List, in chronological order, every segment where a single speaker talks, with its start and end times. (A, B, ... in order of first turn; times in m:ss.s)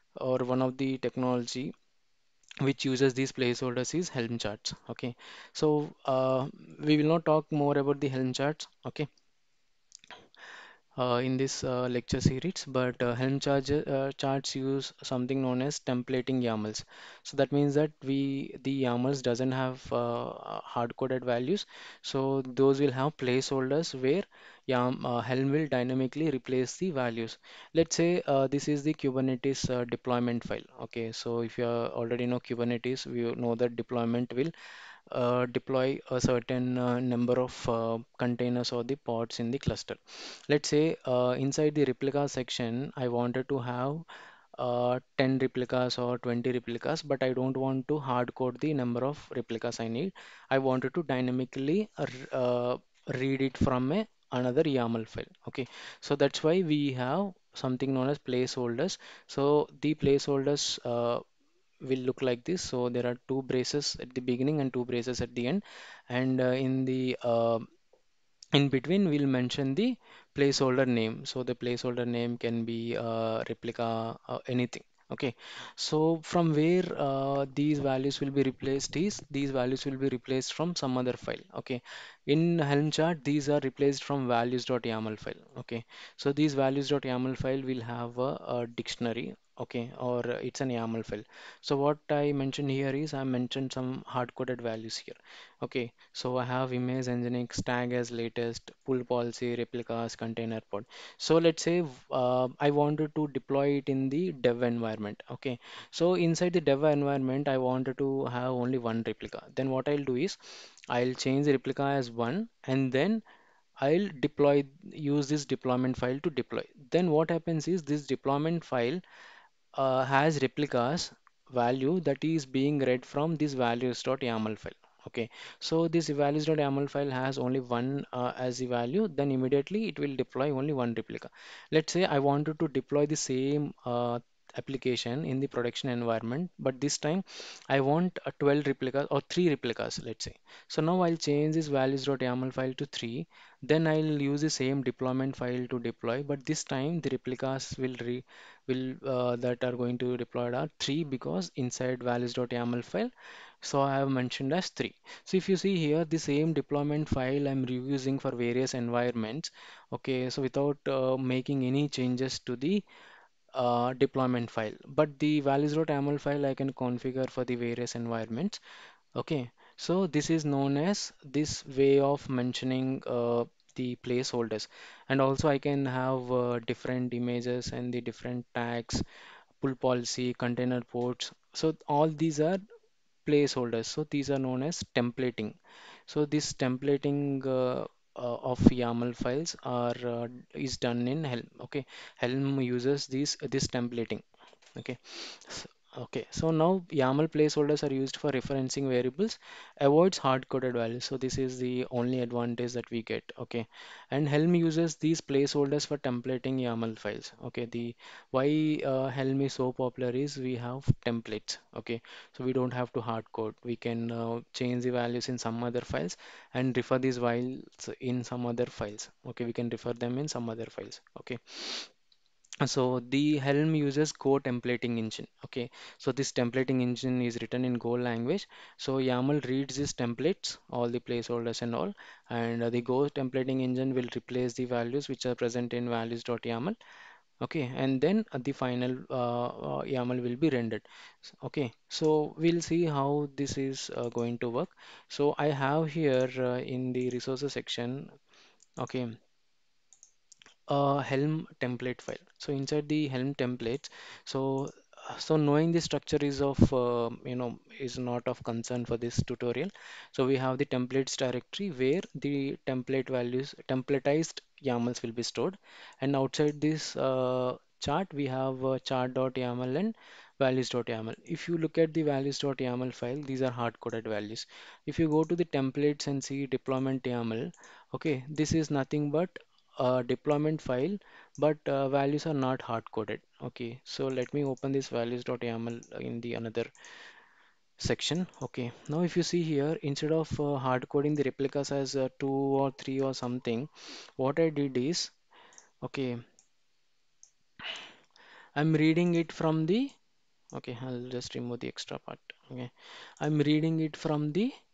0:00.2-0:01.7 A
0:02.6-0:09.1 A
0:11.0-0:34.5 A
0:35.1-1:01.2 A
1:01.8-1:07.6 A
1:08.6-1:50.4 A
1:50.9-1:53.2 A
1:53.8-1:59.0 A
1:59.8-2:33.1 A
2:33.6-2:42.8 A
2:43.5-2:48.6 A
2:49.2-2:59.0 A
2:59.6-3:02.6 A
3:03.3-3:05.6 A
3:06.1-3:14.2 A
3:14.8-3:41.9 A
3:42.6-3:56.8 A
3:57.4-4:08.1 A
4:08.8-4:09.2 A
4:10.7-4:46.7 A
4:47.8-4:55.1 A
4:55.8-4:56.2 A
4:58.6-4:59.9 A
5:00.5-5:04.5 A